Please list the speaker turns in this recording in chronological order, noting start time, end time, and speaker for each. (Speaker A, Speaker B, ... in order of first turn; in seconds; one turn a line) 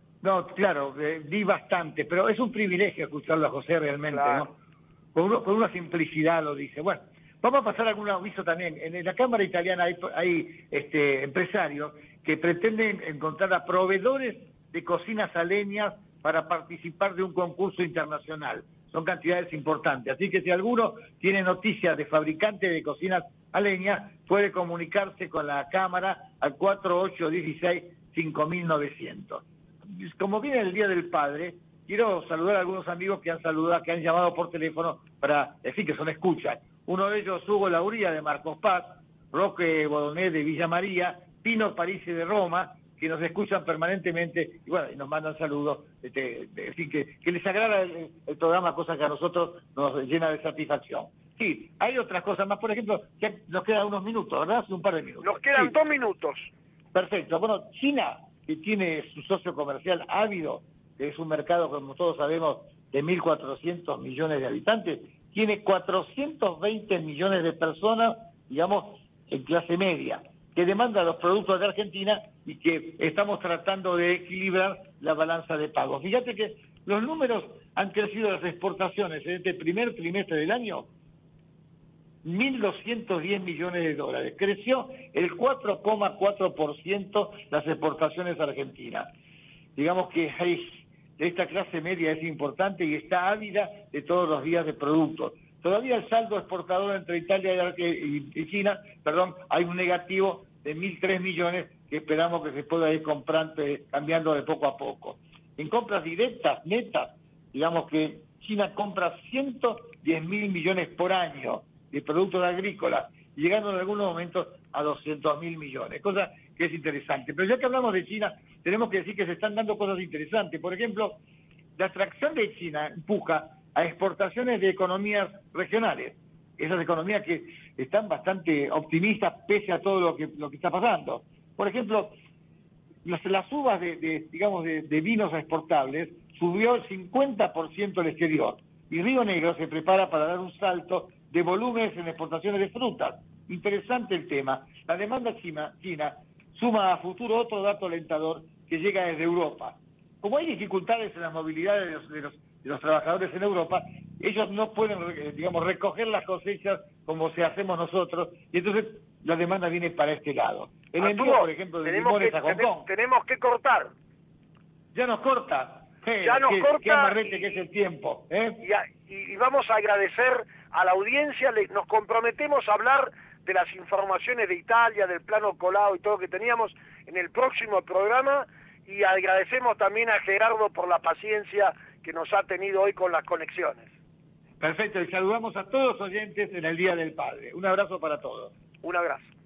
Speaker A: 0.2-4.5
Speaker B: 4.1-4.5
Speaker A: 5.1-55.8
Speaker B: 55.2-56.5
Speaker A: 56.9-80.9
Speaker A: 82.2-89.1
Speaker A: 89.8-121.2
Speaker A: 121.8-132.1
Speaker A: 133.1-162.9
Speaker B: 161.0-163.9
Speaker A: 164.9-168.6
Speaker B: 166.2-167.6
Speaker B: 168.6-183.9
Speaker A: 184.6-188.5
Speaker B: 188.8-189.3